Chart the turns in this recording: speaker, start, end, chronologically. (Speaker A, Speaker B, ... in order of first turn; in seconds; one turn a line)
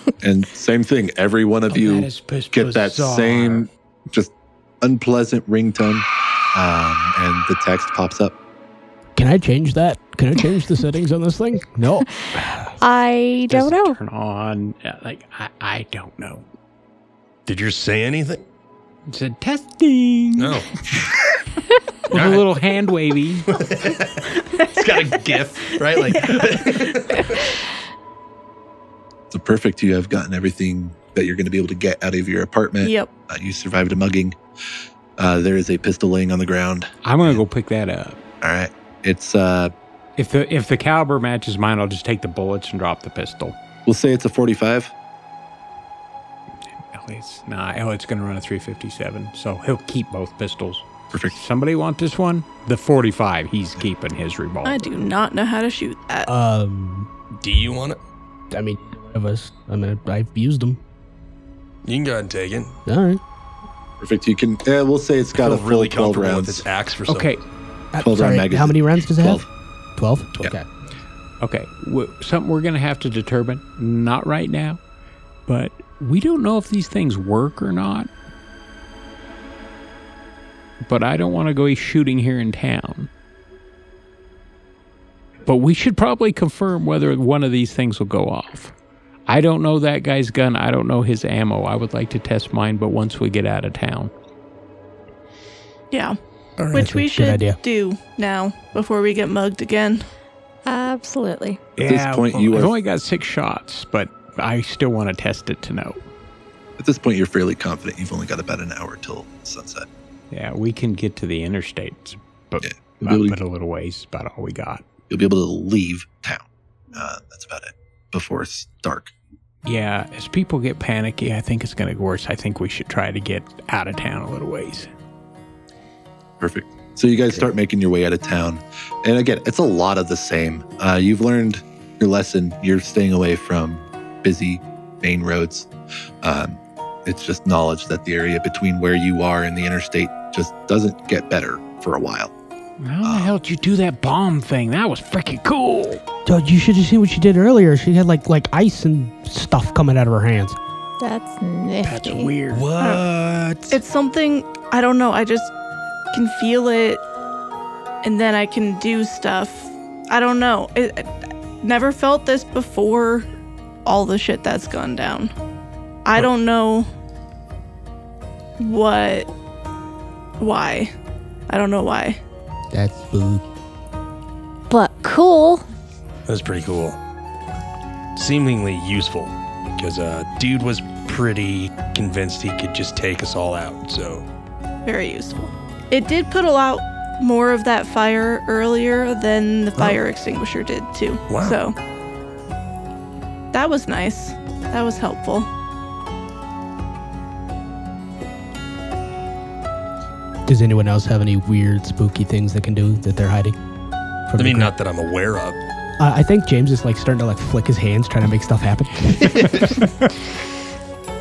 Speaker A: 0.2-8.3
Speaker B: 1.7-3.7
Speaker C: 9.2-12.7
Speaker D: 12.8-14.0
Speaker B: 13.5-16.4
Speaker E: 17.4-18.4
Speaker B: 19.1-20.6
Speaker E: 20.4-20.8
Speaker B: 22.1-23.5
Speaker E: 22.1-22.6
Speaker E: 23.5-27.4
Speaker A: 29.3-34.4
Speaker F: 32.8-33.1
Speaker A: 35.2-37.4
Speaker B: 37.0-38.2
Speaker A: 38.4-39.7
Speaker B: 40.2-43.6
Speaker A: 43.9-44.9
Speaker B: 46.8-55.1
Speaker F: 54.6-56.3
Speaker C: 56.2-57.1
Speaker E: 57.4-58.0
Speaker C: 58.5-60.8
Speaker E: 61.8-62.7
Speaker C: 62.9-63.2
Speaker A: 64.0-66.6
Speaker E: 65.3-67.3
Speaker B: 67.1-67.4
Speaker C: 67.9-69.4
Speaker A: 68.0-69.5
Speaker C: 70.0-70.7
Speaker B: 71.4-74.8
Speaker B: 75.5-78.1
Speaker B: 80.8-83.1
Speaker B: 85.4-88.7
Speaker B: 89.3-94.1
Speaker F: 95.9-96.2
Speaker E: 96.6-96.8
Speaker F: 96.7-100.0
Speaker C: 96.7-97.6
Speaker D: 100.7-101.7
Speaker B: 101.8-106.0
Speaker A: 101.8-102.7
Speaker A: 106.8-109.9
Speaker B: 110.3-114.9
Speaker A: 112.6-113.4
Speaker A: 115.1-119.1
Speaker B: 119.7-124.9
Speaker A: 126.4-135.7
Speaker A: 136.2-142.3
Speaker B: 142.8-146.0
Speaker A: 143.0-143.4
Speaker C: 146.2-150.6
Speaker D: 151.0-152.3
Speaker B: 151.8-152.7
Speaker E: 152.5-153.8
Speaker F: 152.8-153.0
Speaker F: 153.7-155.5
Speaker F: 156.1-157.0
Speaker F: 158.0-161.1
Speaker F: 161.6-163.2
Speaker F: 163.8-165.3
Speaker F: 166.0-166.9
Speaker F: 168.6-169.3
Speaker F: 170.4-170.9
Speaker F: 171.5-172.2
Speaker C: 172.7-173.4
Speaker D: 174.7-175.6
Speaker E: 176.3-177.0
Speaker E: 178.2-184.2
Speaker F: 184.8-191.8
Speaker E: 191.3-191.6
Speaker F: 193.5-195.5
Speaker C: 200.5-203.6
Speaker C: 204.3-204.7
Speaker E: 204.4-205.6
Speaker C: 206.0-209.8
Speaker E: 209.2-209.7